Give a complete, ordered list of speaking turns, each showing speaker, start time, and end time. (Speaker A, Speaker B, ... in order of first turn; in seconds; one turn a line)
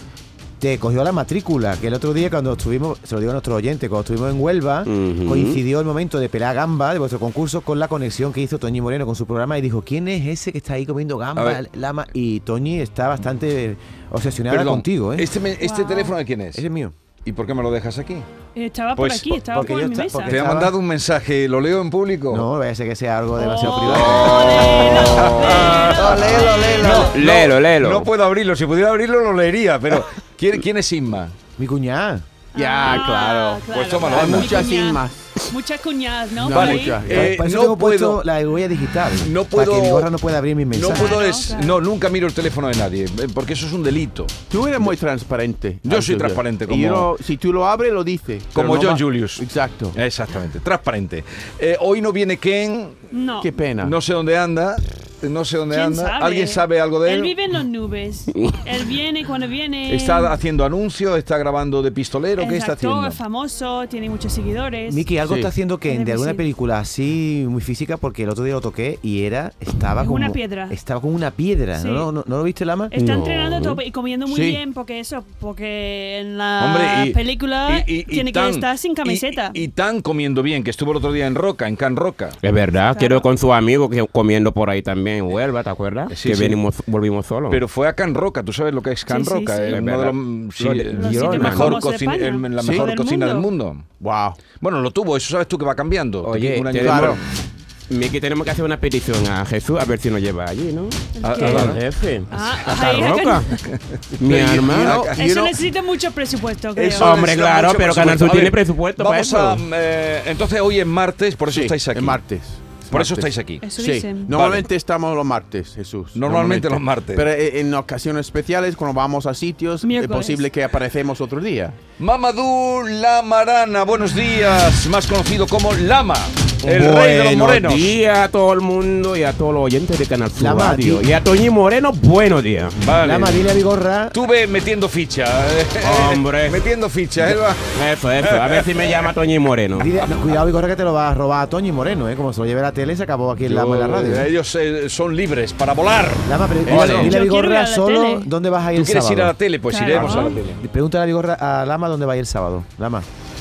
Speaker A: 0.6-15.3
Speaker B: 4.9-5.6
Speaker C: 14.5-16.6
Speaker D: 15.6-16.1
Speaker A: 16.5-16.9
Speaker C: 17.2-18.3
Speaker D: 18.6-20.4
Speaker C: 18.9-19.7
Speaker A: 19.5-20.7
Speaker C: 20.3-22.4
Speaker A: 22.3-24.4
Speaker D: 23.4-26.5
Speaker C: 23.9-31.3
Speaker B: 24.1-28.1
Speaker A: 31.6-32.3
Speaker D: 32.5-37.0
Speaker E: 32.5-35.5
Speaker C: 33.7-34.6
Speaker E: 36.4-37.4
Speaker C: 36.5-38.2
Speaker A: 37.1-41.2
Speaker C: 39.2-40.1
Speaker C: 40.7-44.3
Speaker D: 40.9-41.8
Speaker E: 44.5-50.0
Speaker C: 45.9-47.1
Speaker C: 48.5-49.4
Speaker C: 50.0-53.0
Speaker D: 53.1-53.5
Speaker E: 53.4-54.0
Speaker C: 53.8-57.3
Speaker D: 55.7-60.4
Speaker C: 59.9-63.2
Speaker D: 62.4-65.1
Speaker A: 64.9-72.9
Speaker D: 65.8-66.5
Speaker D: 70.0-70.8
Speaker D: 71.8-72.1
Speaker D: 72.9-79.6
Speaker B: 73.0-73.8
Speaker E: 74.3-74.6
Speaker C: 76.6-82.4
Speaker B: 82.4-87.6
Speaker D: 82.9-83.3
Speaker C: 86.1-86.6
Speaker C: 87.5-93.9
Speaker D: 89.1-89.8
Speaker B: 89.7-91.7
Speaker D: 91.0-93.5
Speaker E: 92.6-92.9
Speaker E: 94.0-94.4
Speaker C: 94.5-97.2
Speaker B: 96.2-97.2
Speaker E: 96.7-97.2
Speaker B: 97.9-103.5
Speaker D: 101.2-101.8
Speaker C: 101.2-101.8
Speaker D: 102.3-103.5
Speaker C: 103.6-104.0
Speaker B: 104.2-105.1
Speaker E: 104.2-105.2
Speaker C: 104.7-105.5
Speaker D: 105.2-107.2
Speaker C: 106.8-112.2
Speaker B: 107.0-109.3
Speaker E: 109.0-109.6
Speaker E: 111.5-121.8
Speaker C: 112.9-113.7
Speaker D: 113.6-114.3
Speaker C: 114.2-114.7
Speaker C: 116.1-117.3
Speaker D: 119.8-120.5
Speaker C: 122.0-128.0
Speaker B: 126.6-132.8
Speaker A: 130.4-131.1
Speaker C: 132.8-133.5
Speaker A: 133.0-134.2
Speaker C: 134.1-137.7
Speaker B: 135.8-136.6
Speaker B: 137.7-139.9
Speaker C: 138.2-139.1
Speaker A: 139.8-144.3
Speaker C: 143.5-147.1
Speaker A: 146.2-153.1
Speaker E: 146.7-147.1
Speaker D: 146.9-148.3
Speaker C: 148.8-150.6
Speaker D: 149.7-150.4